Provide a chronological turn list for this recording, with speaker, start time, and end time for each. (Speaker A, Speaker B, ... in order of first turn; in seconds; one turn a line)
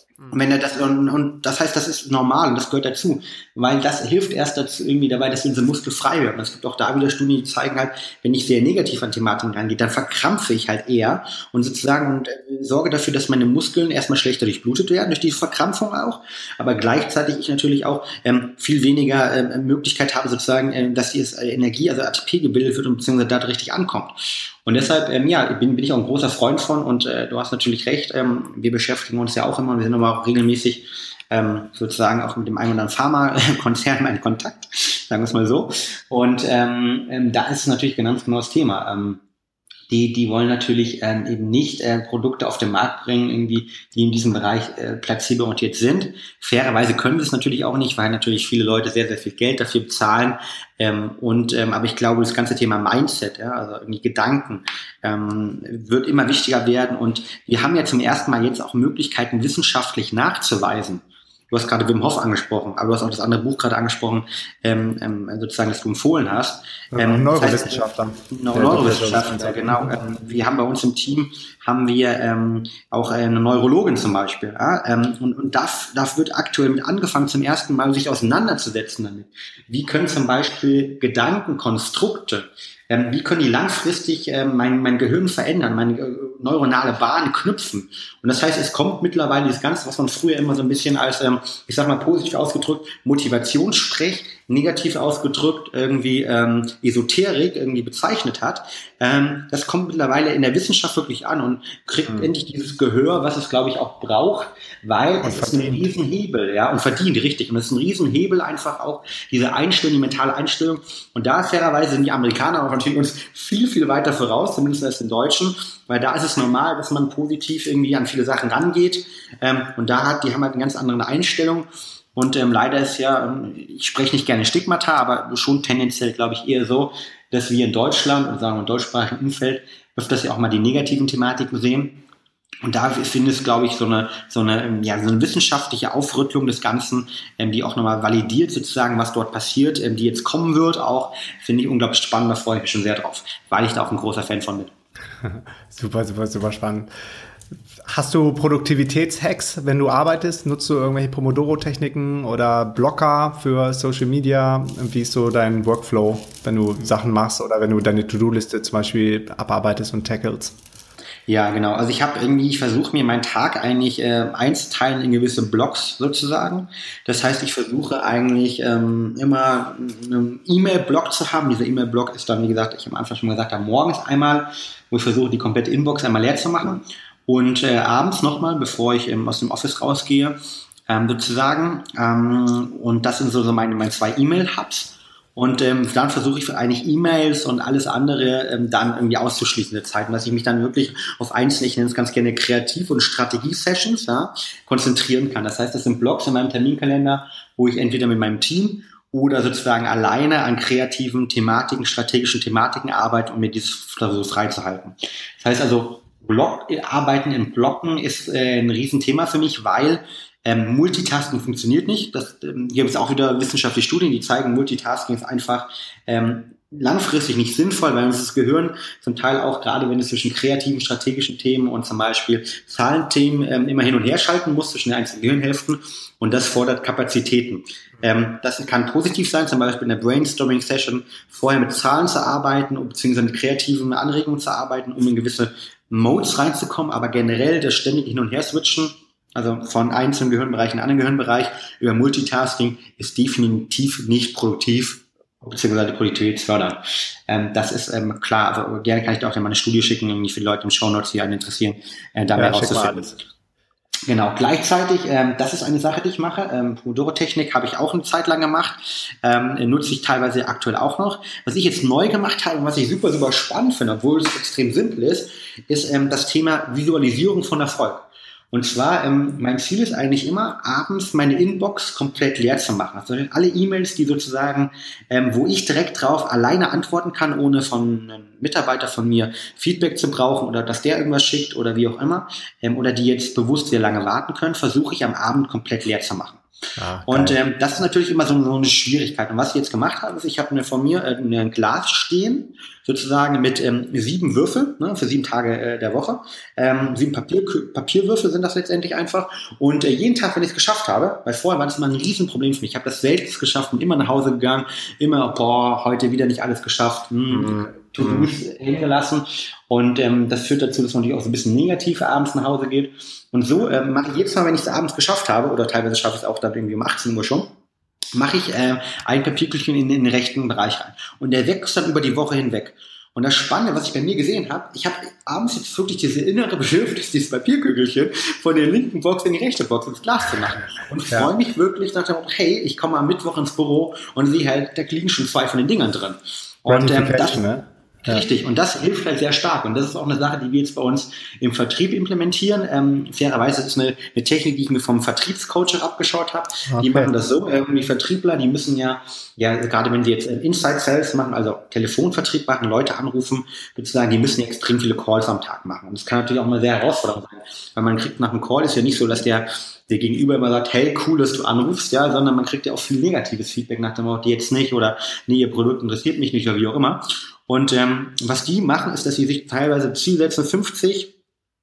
Speaker A: 0.3-39.2
Speaker A: 39.9-132.0
Speaker B: 66.9-69.9
Speaker B: 105.2-105.9
Speaker A: 132.6-144.7
Speaker B: 145.2-146.9
Speaker B: 147.9-160.6
Speaker A: 161.3-180.4
Speaker A: 180.9-253.2
Speaker B: 252.4-253.2
Speaker A: 254.1-286.4
Speaker B: 286.8-287.4
Speaker A: 287.1-317.5
Speaker B: 307.3-308.3
Speaker A: 318.1-337.4
Speaker B: 330.9-331.3
Speaker B: 336.7-338.2
Speaker A: 338.1-371.1
Speaker B: 346.7-347.1